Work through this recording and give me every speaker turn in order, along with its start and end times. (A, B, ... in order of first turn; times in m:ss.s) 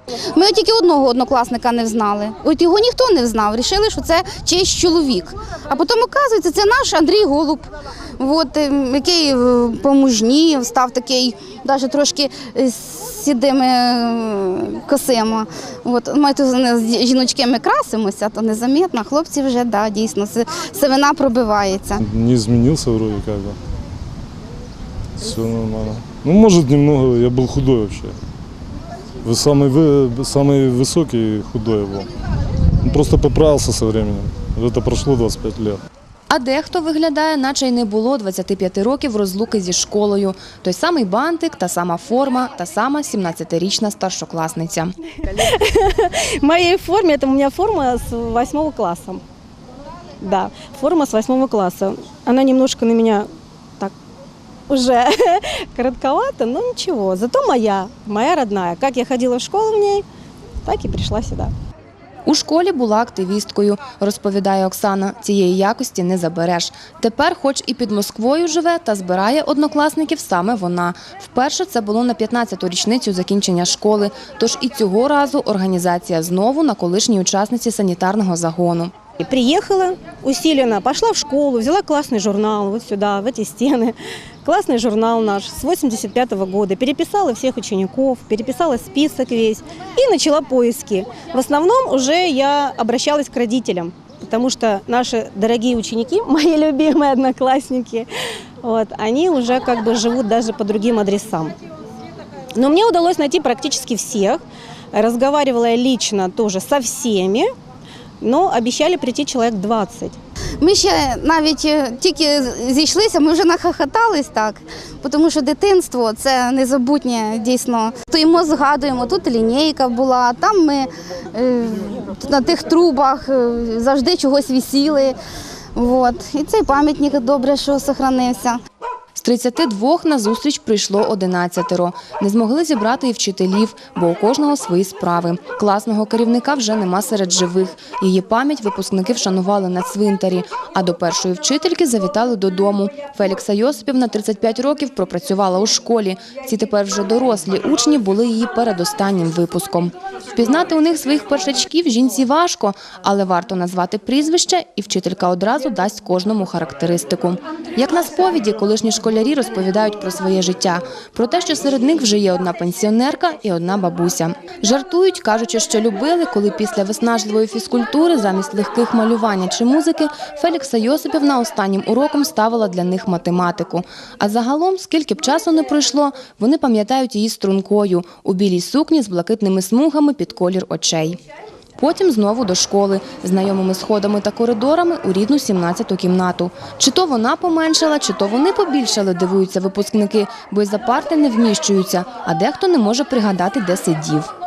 0:00.3-0:22.0 A
0:22.0-0:23.6 B
0:25.2-0:28.2 B
0:29.2-0:32.1 B
0:32.8-0:35.8 B
0:36.3-0:44.9 C
0:45.2-0:49.2 D
0:50.2-0:53.3 D
0:54.7-1:00.0 D
1:00.6-1:01.5 D
1:02.3-1:18.9 C
1:19.2-1:38.1 D
1:38.6-1:41.6 D
1:42.6-1:47.5 D
1:48.2-1:50.2 D
1:50.6-2:05.2 A
2:05.8-2:08.6 A
2:09.2-3:01.2 C
3:01.8-3:14.3 C